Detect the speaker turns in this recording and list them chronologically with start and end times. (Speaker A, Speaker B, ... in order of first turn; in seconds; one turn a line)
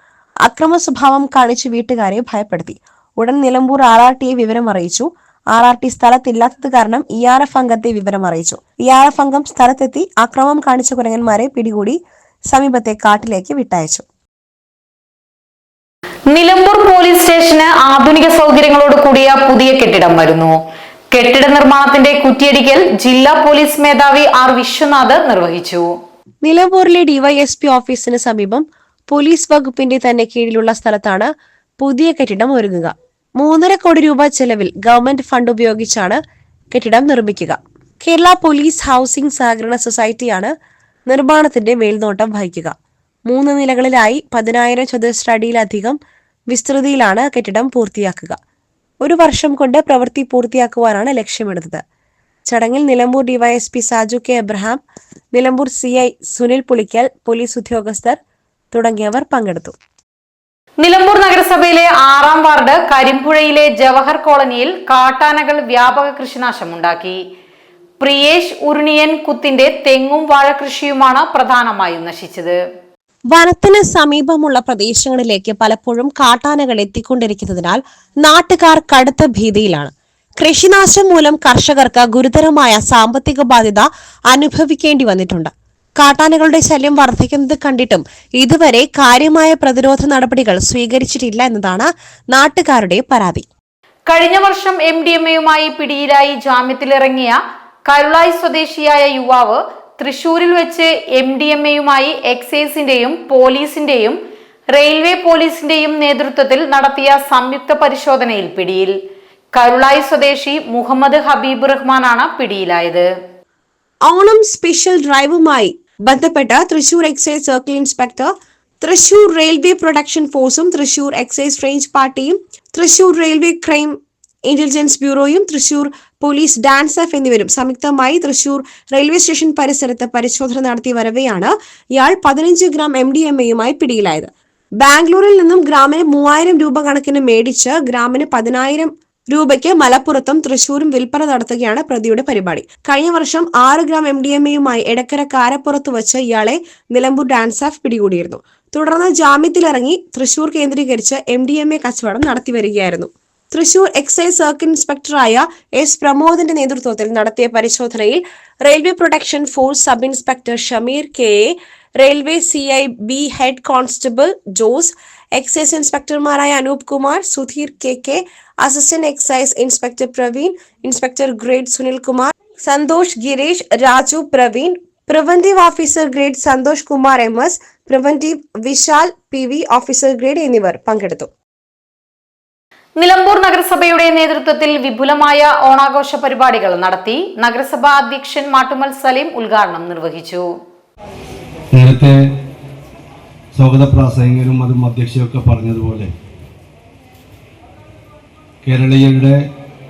Speaker A: 0.4-14.1
Speaker B: 16.3-20.5
Speaker B: 21.1-25.9
Speaker A: 26.4-36.2
Speaker A: 36.7-40.5
Speaker A: 41.1-42.7
Speaker A: 43.3-46.0
Speaker A: 46.5-48.4
Speaker A: 49.0-51.8
Speaker A: 52.5-54.8
Speaker A: 55.3-58.2
Speaker A: 58.7-59.7
Speaker B: 60.8-67.2
Speaker B: 68.0-72.6
Speaker A: 73.3-93.5
Speaker B: 94.1-104.2
Speaker B: 104.7-108.9
Speaker B: 109.5-113.1
Speaker A: 114.0-181.3
Speaker B: 183.0-190.4
Speaker C: 191.7-192.2
Speaker C: 193.5-196.1
Speaker C: 198.6-199.4